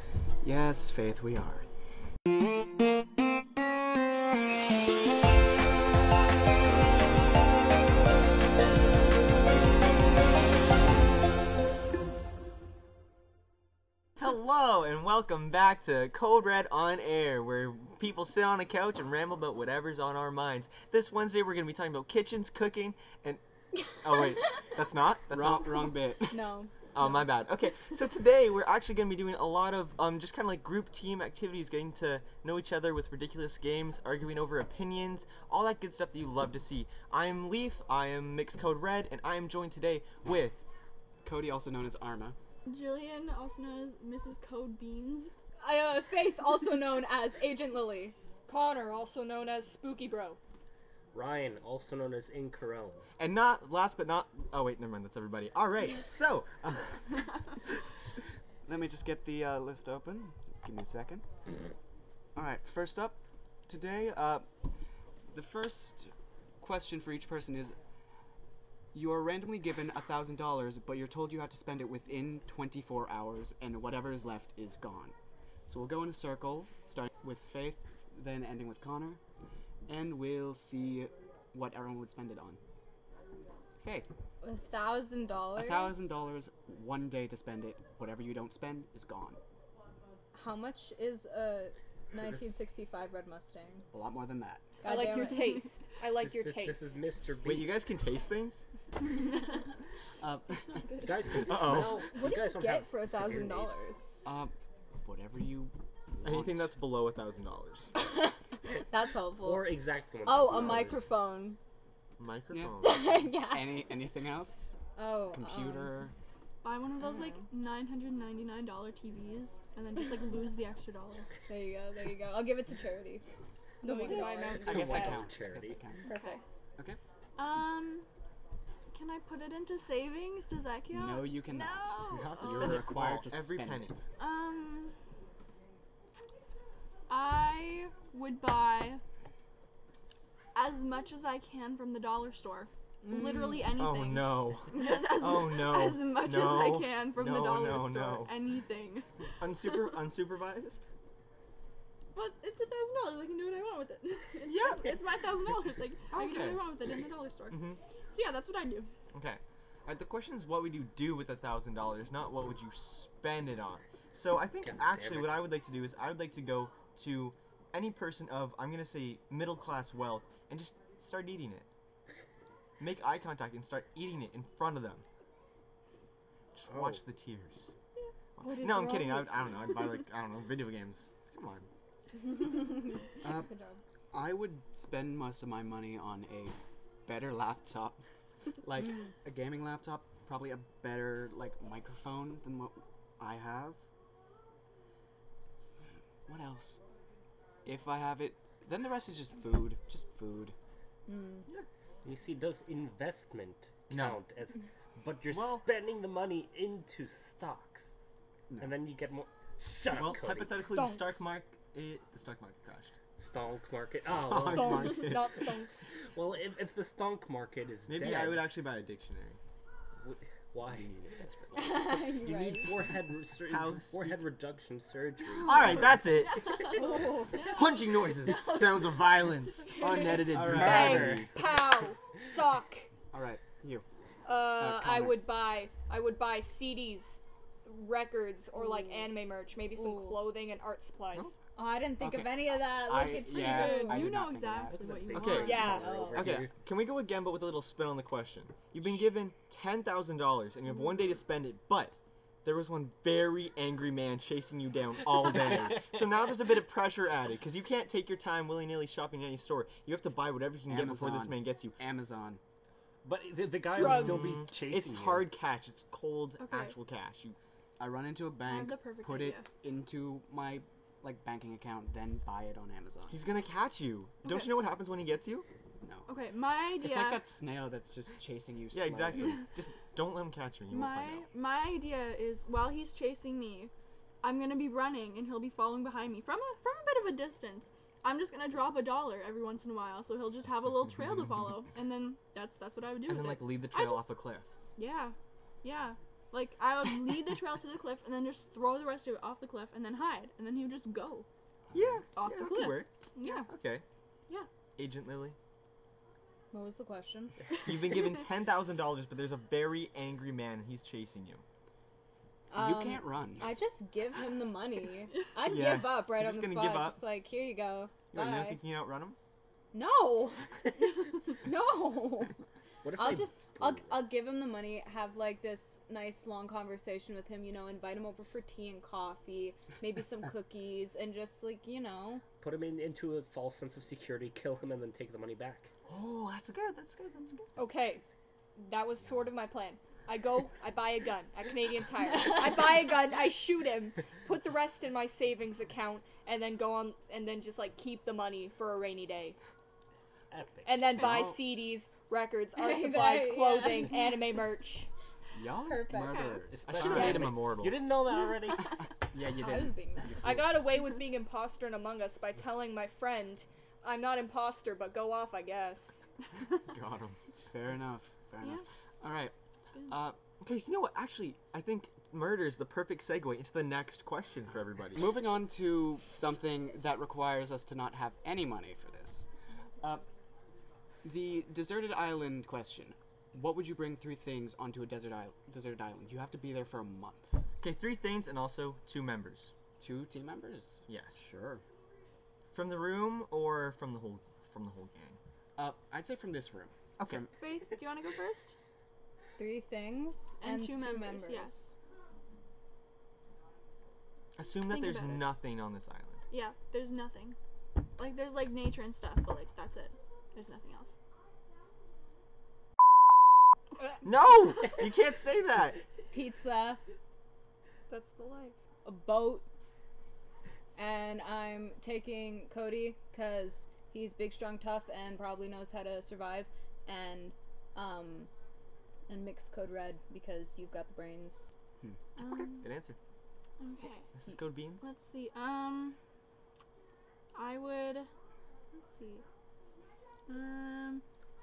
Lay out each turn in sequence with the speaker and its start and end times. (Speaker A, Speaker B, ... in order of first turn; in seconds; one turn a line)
Speaker A: 0.4-1.6
Speaker B: 14.2-23.4
Speaker B: 24.0-25.9
Speaker A: 25.3-26.4
Speaker C: 26.3-26.7
Speaker B: 26.9-40.6
Speaker A: 41.2-42.4
Speaker D: 42.7-45.3
Speaker C: 45.6-48.1
Speaker E: 48.5-50.4
Speaker F: 51.1-53.1
Speaker B: 53.2-57.0
Speaker A: 58.7-61.2
Speaker A: 62.4-64.5
Speaker A: 65.3-67.8
Speaker A: 68.9-75.2
Speaker A: 75.7-79.2
Speaker A: 79.9-82.6
Speaker A: 83.8-84.1
Speaker C: 84.4-86.1
Speaker A: 85.5-89.4
Speaker C: 90.3-93.9
Speaker A: 93.9-94.7
Speaker C: 94.8-95.6
Speaker E: 94.8-97.1
Speaker D: 95.0-95.6
Speaker F: 96.2-97.9
Speaker B: 97.4-98.6
Speaker D: 99.1-99.4
Speaker A: 100.2-101.0
Speaker D: 100.5-101.6
Speaker F: 101.0-103.8
Speaker B: 101.5-102.0
Speaker C: 101.8-104.3
Speaker A: 104.2-106.7
Speaker B: 106.2-107.9
Speaker C: 108.0-111.6
Speaker F: 109.4-111.1
Speaker B: 112.2-113.3
Speaker A: 112.5-114.8
Speaker C: 112.8-113.9
Speaker C: 115.0-115.9
Speaker A: 115.3-116.1
Speaker D: 116.6-121.3
Speaker C: 121.5-123.2
Speaker C: 123.8-125.1
Speaker E: 123.8-125.2
Speaker D: 124.0-124.6
Speaker F: 124.6-125.8
Speaker A: 124.6-126.1
Speaker C: 126.1-126.4
Speaker D: 126.1-126.4
Speaker D: 127.4-128.1
Speaker D: 128.9-132.8
Speaker A: 130.9-134.0
Speaker B: 132.1-134.0
Speaker D: 134.2-134.9
Speaker D: 137.1-139.0
Speaker D: 140.6-149.1
Speaker C: 143.0-143.8
Speaker B: 143.7-148.3
Speaker B: 149.4-150.8
Speaker D: 152.2-158.9
Speaker B: 154.4-155.0
Speaker B: 156.1-156.7
Speaker B: 157.5-157.8
Speaker B: 159.1-171.7
Speaker F: 164.6-165.5
Speaker B: 172.8-175.0
Speaker B: 176.6-177.7
Speaker F: 176.7-177.0
Speaker D: 178.0-179.6
Speaker B: 178.4-181.7
Speaker A: 183.2-183.5
Speaker C: 183.2-183.8
Speaker A: 184.1-188.0
Speaker A: 188.6-193.8
Speaker A: 196.3-196.8
Speaker A: 197.7-200.6
Speaker C: 201.1-201.5
Speaker F: 202.0-207.9
Speaker B: 203.9-204.2
Speaker B: 205.3-205.6
Speaker A: 208.5-208.8
Speaker F: 208.6-210.7
Speaker B: 209.9-212.9
Speaker E: 210.7-211.3
Speaker F: 213.2-215.1
Speaker B: 214.1-215.3
Speaker E: 214.4-215.9
Speaker F: 216.1-218.5
Speaker B: 217.9-219.4
Speaker F: 220.0-226.5
Speaker A: 220.7-221.3
Speaker C: 221.5-222.8
Speaker B: 223.5-224.2
Speaker D: 225.3-230.3
Speaker B: 225.4-226.6
Speaker C: 226.7-227.6
Speaker B: 227.5-231.3
Speaker A: 230.1-231.4
Speaker F: 230.4-231.3
Speaker E: 230.5-232.9
Speaker A: 233.1-233.8
Speaker E: 234.3-241.3
Speaker A: 234.5-235.2
Speaker C: 238.6-239.1
Speaker D: 239.8-240.2
Speaker C: 241.6-244.2
Speaker A: 242.0-246.5
Speaker D: 243.1-245.8
Speaker F: 244.7-246.5
Speaker B: 245.1-261.8
Speaker E: 245.4-246.0
Speaker C: 245.6-246.3
Speaker F: 255.2-256.1
Speaker A: 260.7-262.4
Speaker F: 263.0-265.3
Speaker E: 263.7-264.5
Speaker B: 263.8-267.4
Speaker D: 266.4-266.8
Speaker A: 267.8-273.2
Speaker D: 268.4-269.5
Speaker B: 273.1-275.5
Speaker A: 275.8-276.1
Speaker D: 276.1-277.3
Speaker A: 276.7-279.5
Speaker B: 278.7-281.3
Speaker D: 280.7-283.7
Speaker D: 284.2-294.1
Speaker B: 293.1-294.5
Speaker D: 294.8-301.3
Speaker A: 301.7-302.0
Speaker B: 301.7-303.8
Speaker D: 302.1-303.5
Speaker B: 304.8-305.4
Speaker C: 306.5-307.4
Speaker B: 307.6-311.4
Speaker C: 312.5-318.6
Speaker A: 312.6-313.5
Speaker B: 315.4-317.0
Speaker B: 318.1-319.2
Speaker C: 319.7-320.4
Speaker C: 321.4-322.4
Speaker F: 322.8-324.1
Speaker C: 323.0-332.2
Speaker F: 332.4-335.7
Speaker B: 335.9-337.6
Speaker E: 337.6-338.0
Speaker E: 338.6-349.4
Speaker F: 350.3-350.9
Speaker E: 350.6-354.9
Speaker A: 351.0-351.4
Speaker C: 352.6-354.0
Speaker A: 355.3-357.4
Speaker C: 355.6-356.4
Speaker D: 355.9-356.4
Speaker F: 356.5-358.8
Speaker B: 356.8-357.8
Speaker A: 359.1-360.7
Speaker C: 359.3-360.4
Speaker E: 360.2-366.1
Speaker B: 366.6-367.2
Speaker A: 367.5-369.3
Speaker A: 369.9-370.2
Speaker B: 370.4-375.2
Speaker A: 374.9-379.3
Speaker A: 381.0-387.4
Speaker B: 387.6-389.5
Speaker A: 389.8-391.6
Speaker B: 390.9-391.2
Speaker B: 392.5-395.2
Speaker A: 395.6-397.3
Speaker B: 397.0-397.3
Speaker D: 397.3-398.5
Speaker C: 399.4-401.6
Speaker D: 400.4-401.7
Speaker B: 404.4-406.2
Speaker D: 404.6-405.4
Speaker D: 406.3-407.4
Speaker D: 408.0-411.0
Speaker B: 414.0-415.8
Speaker C: 416.1-416.8
Speaker E: 417.9-418.6
Speaker C: 418.9-419.4
Speaker C: 420.8-428.3
Speaker C: 429.1-431.5
Speaker D: 432.2-432.7
Speaker B: 432.2-433.0
Speaker D: 433.6-434.2
Speaker B: 434.1-434.9
Speaker D: 434.8-436.0
Speaker D: 437.4-438.1
Speaker D: 438.7-439.2
Speaker D: 440.3-441.0